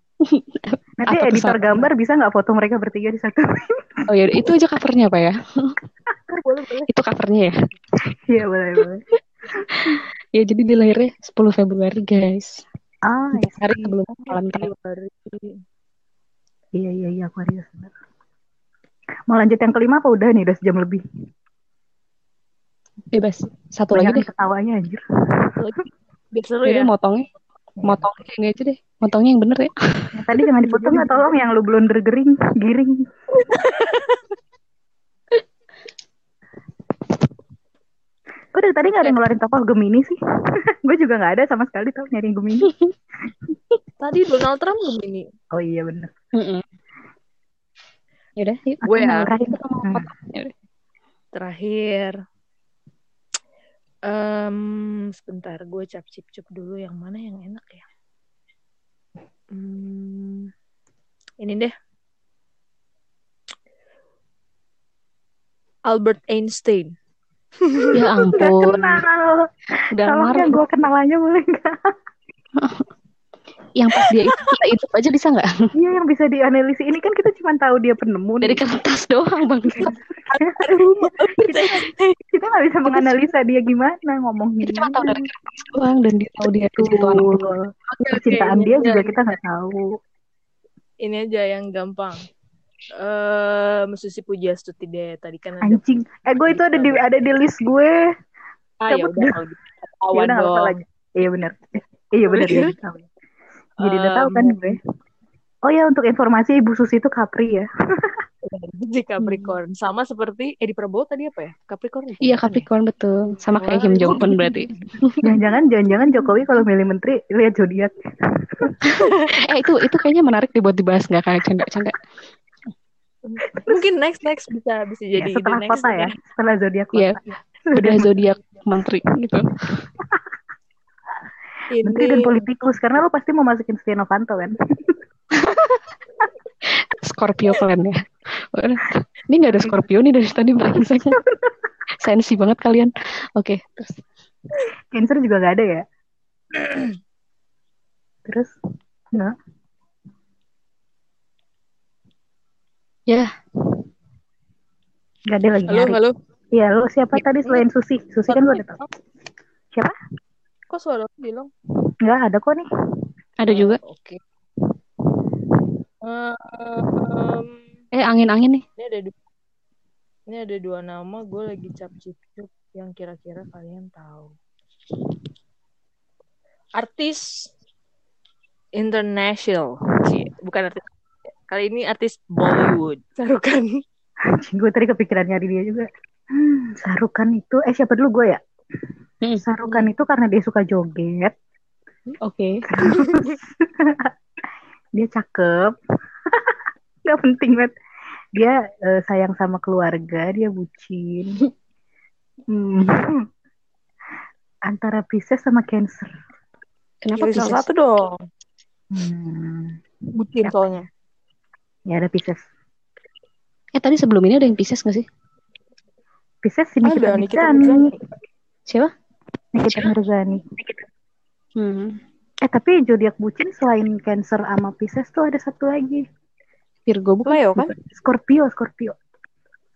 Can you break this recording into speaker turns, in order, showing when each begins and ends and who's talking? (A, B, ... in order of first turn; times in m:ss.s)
0:00.2-0:01.9 A
0:01.0-0:03.4 B
0:04.1-0:05.8 A
0:06.3-0:06.9 C
0:06.9-0:07.5 A
0:08.3-0:09.0 B
0:09.6-0:10.0 B
0:10.4-0:12.6 A
0:13.1-0:15.3 B
0:13.4-0:14.7 A
0:16.8-0:17.9 B
0:19.3-0:21.0 B
0:23.1-0:24.3 A
0:23.9-0:25.0 B
0:25.6-0:25.8 C
0:26.4-0:26.9 C
0:26.6-0:27.3 A
0:27.8-0:30.1 A
0:30.1-0:33.0 B
0:30.7-0:31.3 C
0:33.4-0:34.2 C
0:38.5-0:40.2 B
0:40.8-0:42.7 B
0:42.7-0:42.9 A
0:44.0-0:45.3 C
0:45.5-0:46.1 B
0:46.4-0:46.6 A
0:48.4-0:50.5 A
0:48.8-0:49.3 C
0:48.9-0:50.1 B
0:51.3-0:52.2 C
0:54.1-0:57.8 C
0:59.5-1:00.5 C
1:01.4-1:01.7 C
1:05.9-1:06.9 C
1:07.7-1:08.3 C
1:07.9-1:09.0 A
1:08.4-1:09.5 B
1:09.9-1:10.6 A
1:10.0-1:11.7 B
1:12.6-1:12.9 A
1:13.8-1:15.5 A
1:15.8-1:18.6 B
1:18.4-1:19.9 A
1:20.3-1:22.2 C
1:21.4-1:21.8 B
1:22.3-1:25.3 B
1:22.9-1:23.2 A
1:24.6-1:27.5 A
1:26.7-1:29.8 B
1:28.0-1:29.2 C
1:31.0-1:32.2 C
1:33.0-1:35.8 C
1:35.6-1:38.0 B
1:36.4-1:37.0 C
1:38.8-1:40.8 C
1:38.9-1:39.3 B
1:40.1-1:43.1 B
1:42.3-1:42.7 C
1:43.8-1:44.7 C
1:43.8-1:44.8 B
1:45.7-1:47.7 B
1:48.4-1:52.7 C
1:49.2-1:49.5 A
1:52.2-1:55.2 A
1:53.5-1:54.7 C
1:55.2-1:57.9 B
1:59.0-1:59.2 C
1:59.5-2:01.9 A
2:03.2-2:06.2 C
2:05.2-2:08.1 B
2:06.9-2:07.2 A
2:07.8-2:09.8 A
2:11.7-2:12.3 C
2:11.8-2:14.6 B
2:15.4-2:15.8 A
2:17.0-2:18.0 A
2:18.5-2:21.2 A
2:22.0-2:24.0 A
2:24.9-2:25.8 B
2:26.5-2:26.9 C
2:28.3-2:28.5 B
2:35.3-2:36.0 B
2:35.7-2:36.2 C
2:36.5-2:38.8 B
2:38.3-2:38.8 C
2:40.7-2:41.5 C
2:42.0-2:42.6 B
2:43.4-2:43.8 A
2:43.5-2:44.2 C
2:46.1-2:47.5 C
2:48.0-2:48.6 A
2:48.8-2:49.1 C
2:50.3-2:54.3 C
2:56.8-2:57.2 C
2:58.8-3:00.8 C
3:01.5-3:03.7 C
3:04.4-3:08.4 B
3:09.2-3:09.9 A
3:09.4-3:11.3 B
3:12.2-3:12.6 A
3:12.7-3:14.1 B
3:12.8-3:13.4 C
3:15.0-3:15.8 B
3:17.1-3:17.7 B
3:18.4-3:21.4 B
3:22.5-3:23.2 B
3:24.7-3:26.1 B
3:27.0-3:27.6 A
3:27.2-3:28.1 C
3:28.9-3:29.8 B
3:30.2-3:30.9 C
3:31.9-3:32.4 B
3:33.8-3:35.1 A
3:36.4-3:37.9 B
3:36.8-3:37.9 C
3:39.5-3:40.5 B
3:41.6-3:42.0 A
3:42.5-3:46.0 B
3:46.9-3:47.7 A
3:47.3-3:47.7 C
3:47.9-3:48.9 B